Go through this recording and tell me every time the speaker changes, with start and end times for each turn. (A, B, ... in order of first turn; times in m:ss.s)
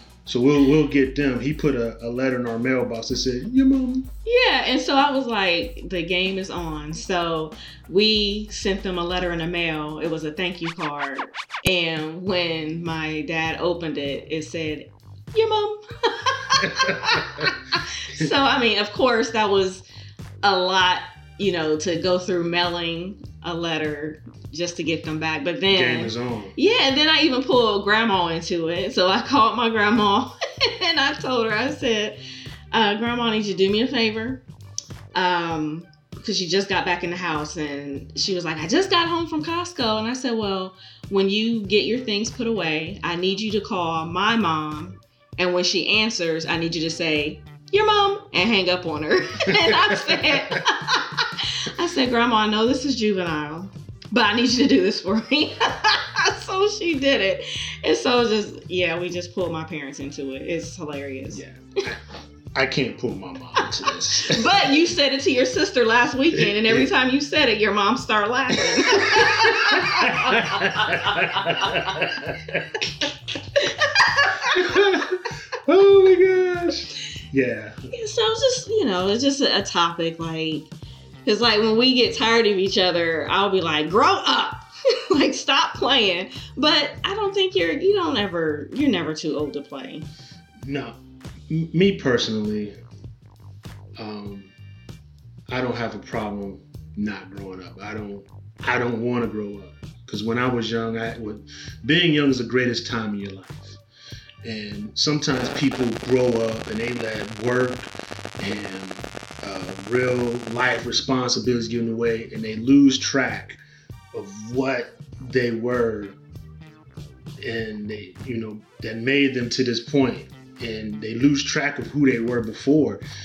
0:00.2-0:04.1 A
0:04.2-0:19.8 B
0:16.6-0:17.5 A
0:20.4-0:32.2 B
0:25.7-0:26.5 A
0:32.7-0:34.4 B
0:35.1-1:01.4 B
0:49.5-0:50.6 A
1:01.3-1:02.0 A
1:02.5-1:04.7 A
1:04.2-1:11.8 B
1:06.3-1:06.9 A
1:08.8-1:12.7 A
1:13.5-1:14.8 B
1:14.5-1:17.9 A
1:17.9-1:20.7 B
1:21.2-1:30.1 B
1:30.6-1:31.0 A
1:31.5-1:32.7 A
1:34.0-1:34.5 A
1:35.5-1:43.8 A
1:44.4-1:53.6 A
1:54.1-1:56.2 A
1:57.4-2:03.0 A